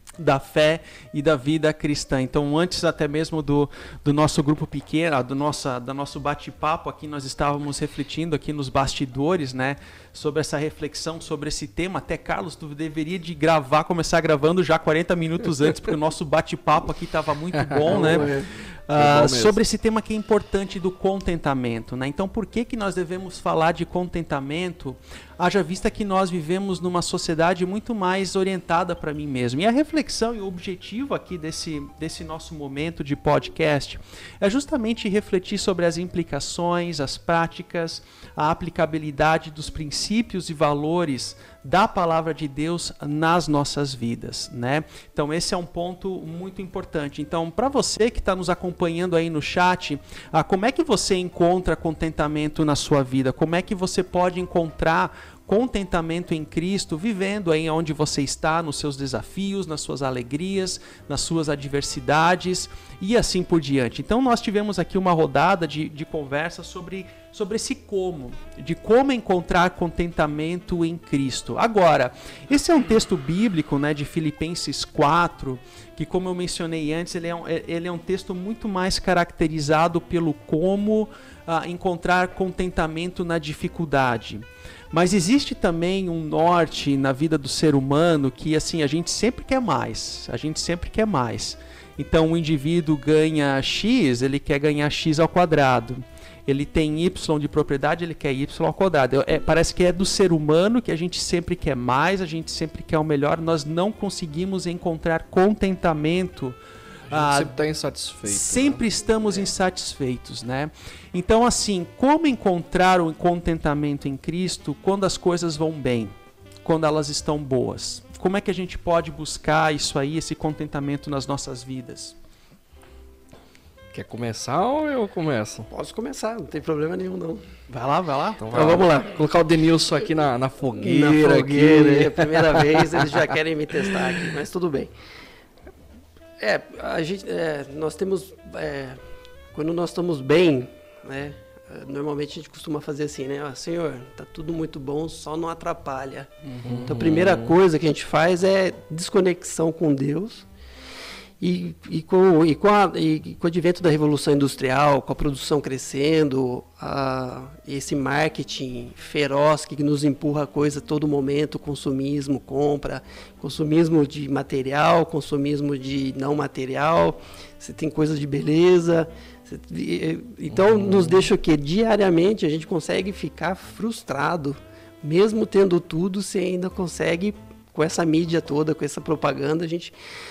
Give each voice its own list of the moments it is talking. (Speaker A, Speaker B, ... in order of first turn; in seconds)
Speaker A: 0.2-18.3, 18.9-106.6, 107.1-107.5, 108.3-116.1, 116.6-122.2, 127.7-128.4, 146.4-146.9
Speaker B: 17.5-18.4, 18.9-19.6, 107.1-108.8, 123.9-125.7, 128.4-133.1, 133.8-134.3, 146.7-147.6
Speaker C: 17.9-18.5, 125.7-127.5, 128.5-129.1, 130.8-134.9, 136.4-146.3, 146.8-150.5, 151.4-179.9